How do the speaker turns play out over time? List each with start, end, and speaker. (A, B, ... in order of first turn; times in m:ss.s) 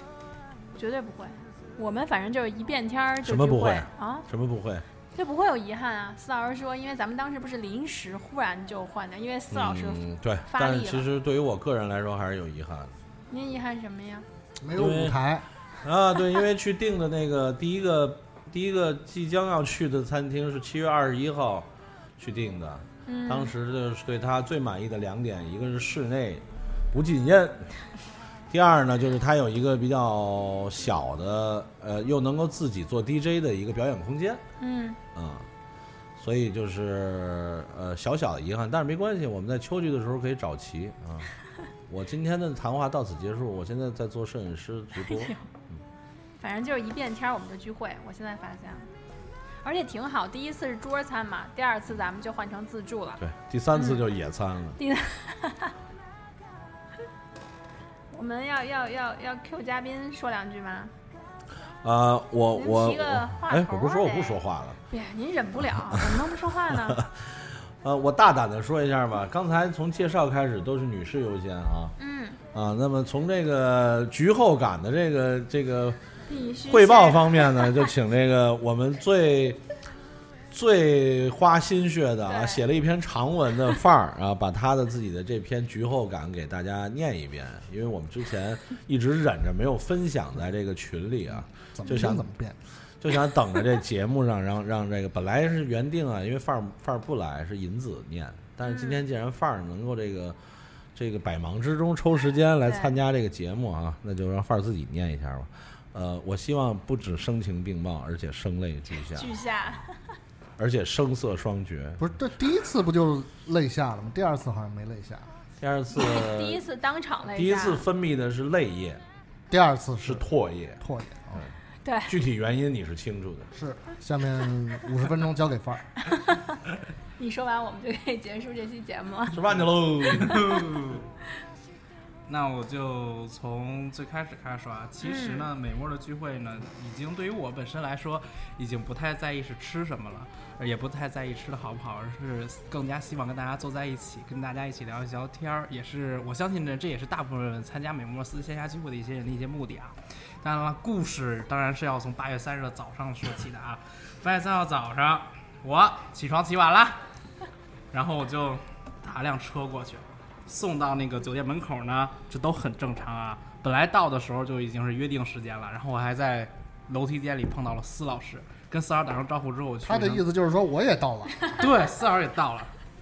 0:00.7-0:04.2 A
0:03.2-0:04.8 B
0:05.1-0:11.1 A
0:09.5-0:12.9 B
0:13.3-0:14.2 A
0:14.6-0:15.4 C
0:14.7-0:15.2 B
0:15.8-0:27.7 B
0:23.0-0:23.5 A
0:28.5-0:34.4 B
0:34.6-0:35.0 A
0:35.1-0:35.5 B
0:36.2-0:41.3 B
0:41.9-0:45.8 B
0:45.0-0:45.4 A
0:46.4-0:48.9 A
0:49.6-0:53.2 A
0:53.2-0:54.8 B
0:53.7-0:54.0 A
0:54.8-0:55.7 A
0:58.1-1:00.9 A
1:01.8-1:04.8 B
1:02.6-1:07.0 A
1:05.8-1:07.3 B
1:07.8-1:11.9 B
1:12.0-1:12.4 A
1:12.5-1:16.0 B
1:16.3-1:17.9 A
1:16.7-1:19.6 B
1:20.5-1:32.2 B
1:22.2-1:22.6 A
1:31.7-1:32.6 C
1:33.0-1:40.4 B
1:38.6-1:39.0 A
1:40.9-1:49.3 B
1:42.6-1:42.9 A
1:48.9-1:49.9 A
1:50.6-1:52.0 B
1:52.0-1:55.2 C
1:55.6-1:56.6 B
1:55.9-1:57.8 A
1:57.3-1:59.0 B
1:59.5-2:00.2 C
2:00.0-2:00.8 B
2:00.8-2:01.4 C
2:01.8-2:02.1 A
2:02.1-2:03.5 B
2:03.5-2:05.8 C
2:06.1-2:06.4 A
2:07.2-2:09.4 A
2:09.3-2:10.6 B
2:10.2-2:11.0 D
2:12.3-2:37.0 D
2:15.0-2:15.5 A
2:37.9-2:50.2 D
2:49.8-2:51.6 C
2:51.6-2:52.7 D